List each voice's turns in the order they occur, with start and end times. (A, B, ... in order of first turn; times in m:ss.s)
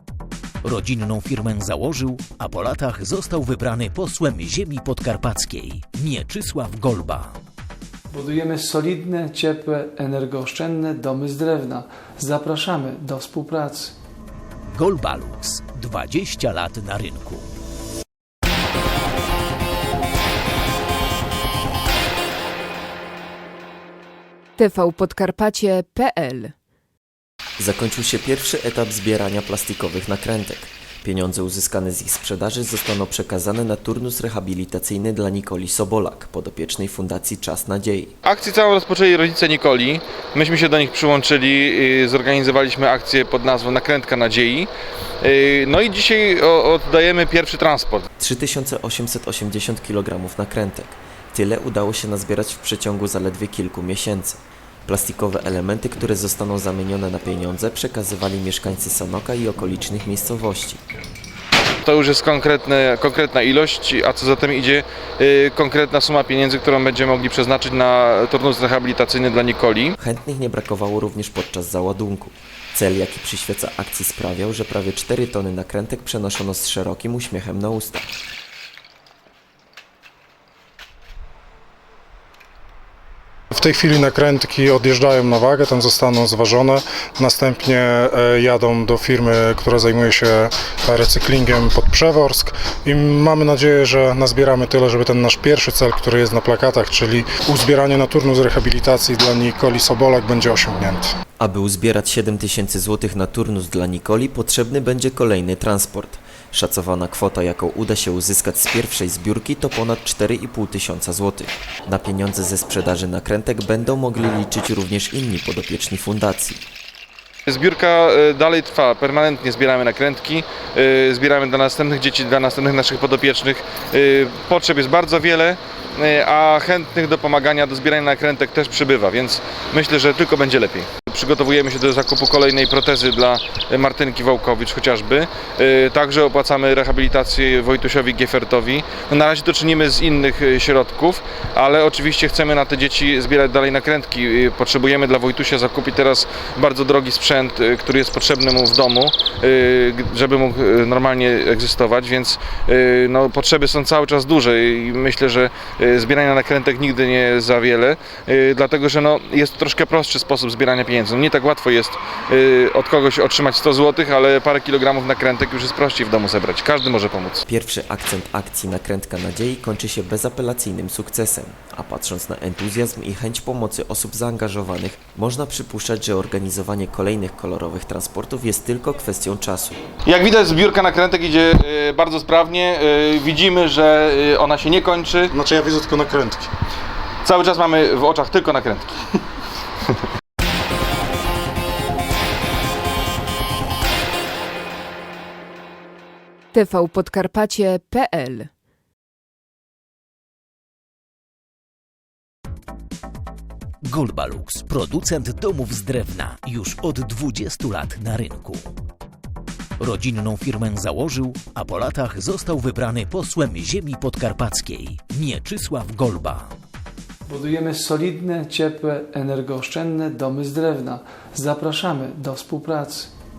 0:00.6-0:07.4 A
0:08.1-0:13.9 B
0:14.7-0:17.5 A
0:24.6-0:26.5 C
0:27.6-0:38.1 D
0:38.2-0:44.7 E
0:45.2-0:48.1 E
0:48.2-1:00.8 D
1:01.8-1:09.9 E
1:10.0-1:18.0 D
1:23.5-1:41.1 F
1:41.4-1:56.6 D
1:57.4-2:47.4 E
2:47.4-2:59.8 D
3:00.0-3:05.3 E
3:05.3-3:06.5 F
3:07.2-3:08.9 E
3:16.5-3:18.5 C
3:23.8-3:28.7 A
3:29.8-3:36.5 A
3:37.2-3:43.1 B